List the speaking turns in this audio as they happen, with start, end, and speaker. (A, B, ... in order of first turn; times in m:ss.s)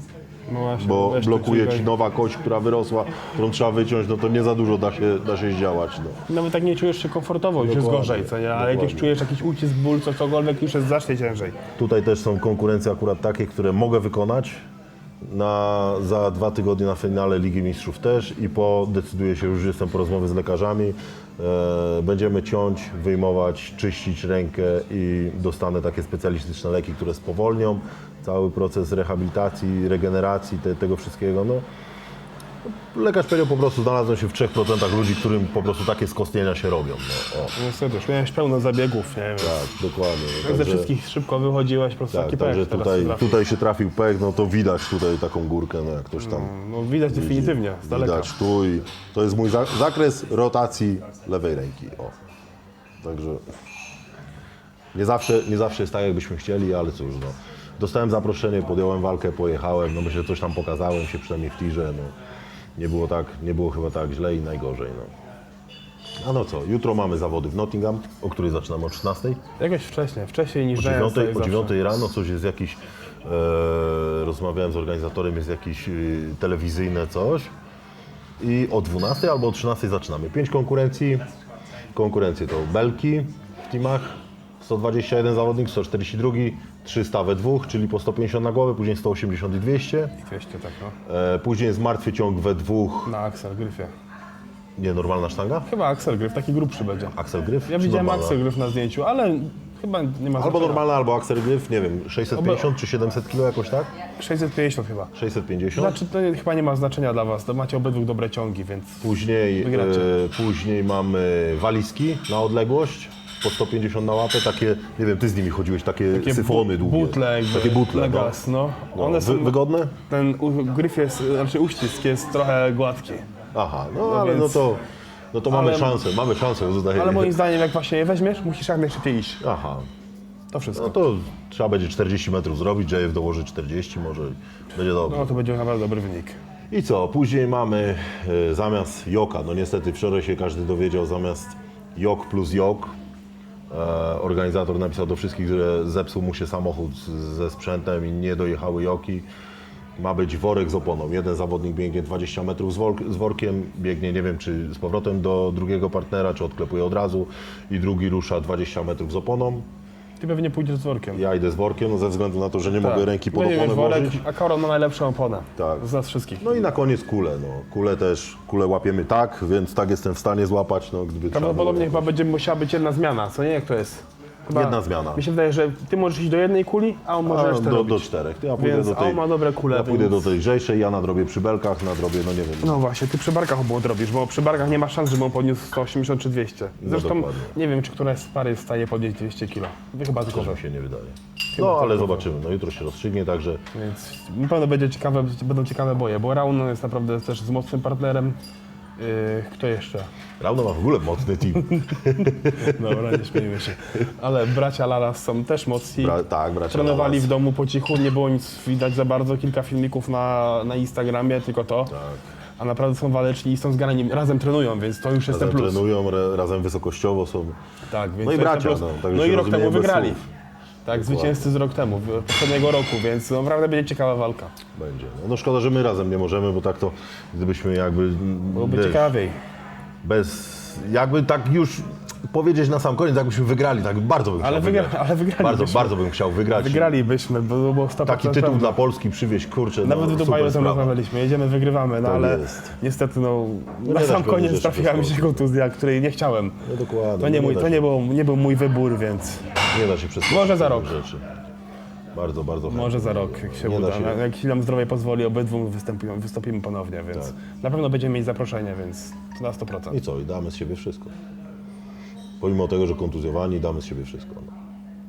0:00.5-0:01.9 A
0:00.8-0:06.2 B
0:06.3-0:11.6 A
0:07.6-0:09.1 B
0:11.8-0:14.6 B
0:15.2-0:31.7 B
0:32.6-0:37.5 B
0:37.6-0:39.6 A
0:39.4-0:40.9 B
0:40.4-0:43.4 A
0:42.1-0:46.5 B
0:46.2-0:48.3 A
0:47.1-0:52.2 B
0:53.0-0:53.5 B
0:54.9-1:02.1 B
1:02.8-1:05.1 B
1:06.2-1:09.4 B
1:09.6-1:11.8 A
1:10.8-1:17.5 B
1:18.4-1:21.2 B
1:21.9-1:30.1 B
1:30.2-1:31.0 A
1:31.1-1:33.1 B
1:33.1-1:33.9 A
1:34.8-1:35.7 B
1:35.7-1:37.2 A
1:37.1-1:38.4 B
1:37.7-1:40.8 A
1:40.4-1:43.9 B
1:42.4-1:42.7 A
1:44.2-1:45.1 A
1:45.2-1:46.0 B
1:45.8-1:50.1 A
1:49.0-1:58.4 B
1:56.1-2:03.2 A
1:58.9-1:59.9 B
2:03.5-2:07.4 B
2:04.0-2:04.7 A
2:05.5-2:06.0 A
2:07.0-2:09.4 A
2:09.4-2:09.9 B
2:10.5-2:11.0 A
2:10.7-2:15.4 B
2:15.1-2:16.4 A
2:16.7-2:23.0 B
2:23.7-2:29.2 B
2:30.0-2:39.7 B
2:40.2-2:41.2 A
2:41.1-2:44.2 B
2:42.8-2:46.6 A
2:45.6-2:45.9 B
2:46.4-2:52.1 B
2:51.3-3:00.3 A
2:54.5-2:55.2 B
2:57.2-3:02.8 B
3:02.6-3:10.6 A
3:06.8-3:07.5 B
3:10.2-3:13.6 B
3:11.5-3:12.3 A
3:13.7-3:18.4 A
3:19.0-3:20.1 A
3:20.4-3:22.8 B
3:22.4-3:26.2 A
3:26.0-3:27.3 B
3:26.7-3:32.0 A
3:31.9-3:32.2 B
3:32.6-3:35.8 A
3:35.3-3:37.6 B
3:37.9-3:40.2 A
3:38.2-3:40.2 B
3:40.8-3:44.5 A
3:40.9-3:41.5 B
3:44.8-3:49.1 B
3:48.5-3:49.4 A
3:50.0-3:57.0 B
3:54.4-3:56.0 A
3:56.5-3:58.8 A
3:58.0-4:00.9 B
3:59.8-4:06.6 A
4:02.0-4:02.7 B
4:03.8-4:05.4 B
4:06.6-4:07.9 B
4:07.2-4:09.6 A
4:09.7-4:11.2 B
4:10.3-4:11.0 A
4:12.1-4:14.2 B
4:12.7-4:20.0 A
4:19.9-4:21.1 B
4:22.4-4:24.5 B